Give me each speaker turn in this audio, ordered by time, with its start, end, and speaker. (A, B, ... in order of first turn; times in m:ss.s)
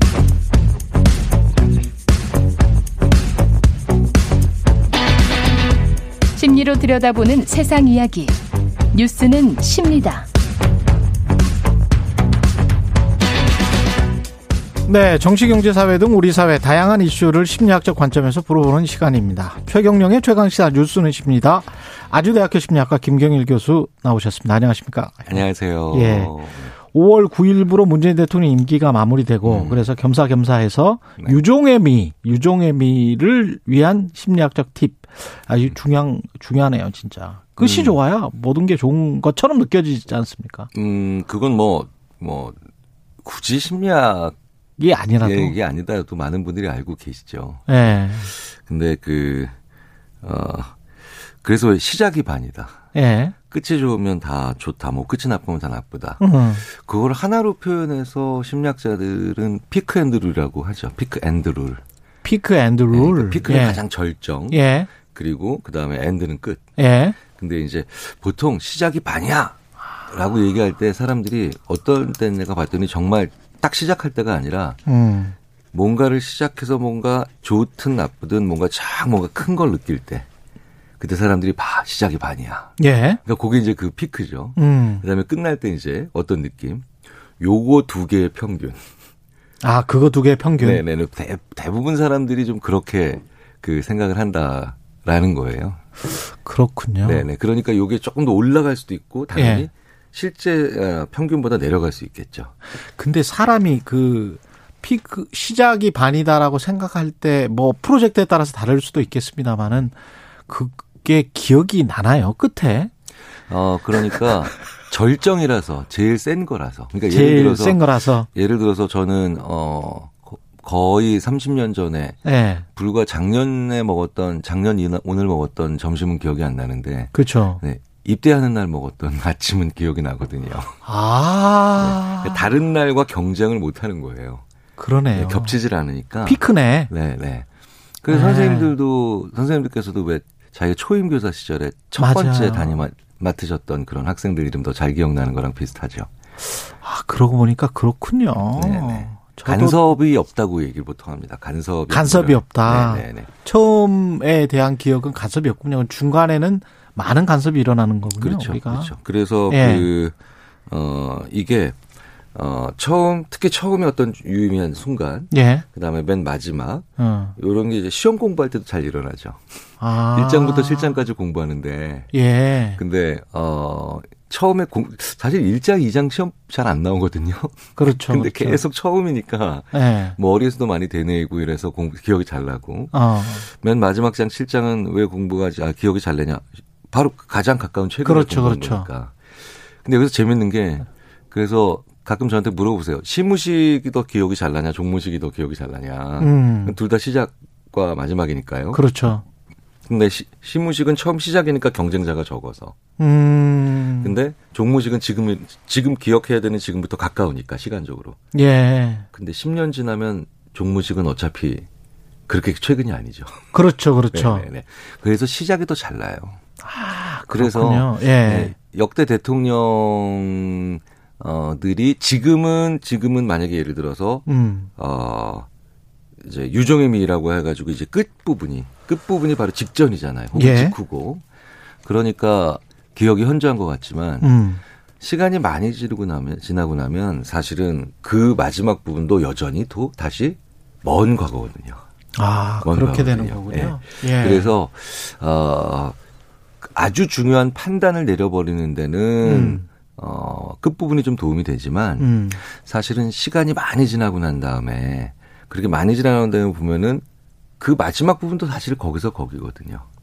0:06.4-0:08.4 A
0:08.9-0:10.3 A
0:14.9-0:26.3 B
0:25.3-0:26.8 C
0:26.9-0:40.7 B
0:29.4-0:29.9 C
0:37.6-0:38.0 C
0:40.7-0:42.6 C
0:43.2-0:44.3 C
0:44.8-0:45.6 B
0:45.2-0:49.5 C
0:47.7-0:48.3 B
0:50.2-0:50.8 C
0:51.4-0:52.8 C
0:52.9-0:53.3 B
0:53.5-1:01.8 C
0:56.2-0:56.6 B
1:02.2-1:03.8 B
1:02.9-1:06.6 C
1:04.5-1:04.9 B
1:06.8-1:07.2 B
1:07.2-1:09.6 C
1:10.1-1:14.8 C
1:14.9-1:15.3 B
1:15.7-1:20.3 C
1:21.0-1:28.8 C
1:22.8-1:23.2 B
1:24.6-1:25.0 B
1:29.6-1:30.8 B
1:30.6-1:35.8 C
1:36.2-1:37.2 B
1:37.0-1:42.5 C
1:39.4-1:39.7 B
1:43.0-1:50.0 B
1:50.5-1:52.9 B
1:53.5-2:02.2 C
1:57.1-1:58.3 B
2:02.2-2:02.6 B
2:02.8-2:10.7 C
2:07.1-2:07.6 B
2:10.8-2:12.4 B
2:11.8-2:14.4 C
2:14.8-2:15.6 B
2:15.2-2:17.5 C
2:16.2-2:16.9 B
2:18.0-2:26.1 C
2:18.1-2:18.8 B
2:22.0-2:22.8 B
2:26.6-2:29.9 B
2:28.5-2:33.3 C
2:31.9-2:38.9 B
2:38.2-2:40.2 C
2:39.5-2:39.9 B
2:40.7-2:41.8 C
2:42.4-2:46.9 C
2:45.3-2:45.6 B
2:47.0-2:47.4 B
2:47.4-2:49.4 C
2:49.8-2:51.0 B
2:50.1-2:52.1 C
2:52.1-2:52.8 B
2:52.8-3:09.2 C
2:57.8-2:58.6 B
2:59.7-3:00.2 B
3:02.9-3:03.5 B
3:08.0-3:08.9 B
3:09.8-3:18.8 C
3:16.2-3:16.8 B
3:18.7-3:19.2 B
3:19.9-3:22.8 C
3:23.0-3:24.2 B
3:24.0-3:28.2 C
3:28.3-3:29.1 B
3:29.1-3:31.7 C
3:32.3-3:33.4 C
3:33.5-3:34.5 B
3:34.1-3:36.4 C
3:36.6-3:38.5 B
3:37.3-3:45.5 C
3:44.3-3:44.7 B
3:46.2-3:51.2 C
3:50.4-3:50.8 B
3:51.8-3:54.3 C
3:54.2-3:54.6 B
3:55.0-4:01.8 C
4:02.2-4:04.5 B
4:02.6-4:06.0 C
4:06.6-4:17.0 C
4:09.2-4:09.6 B
4:12.0-4:12.4 B
4:17.6-4:19.8 C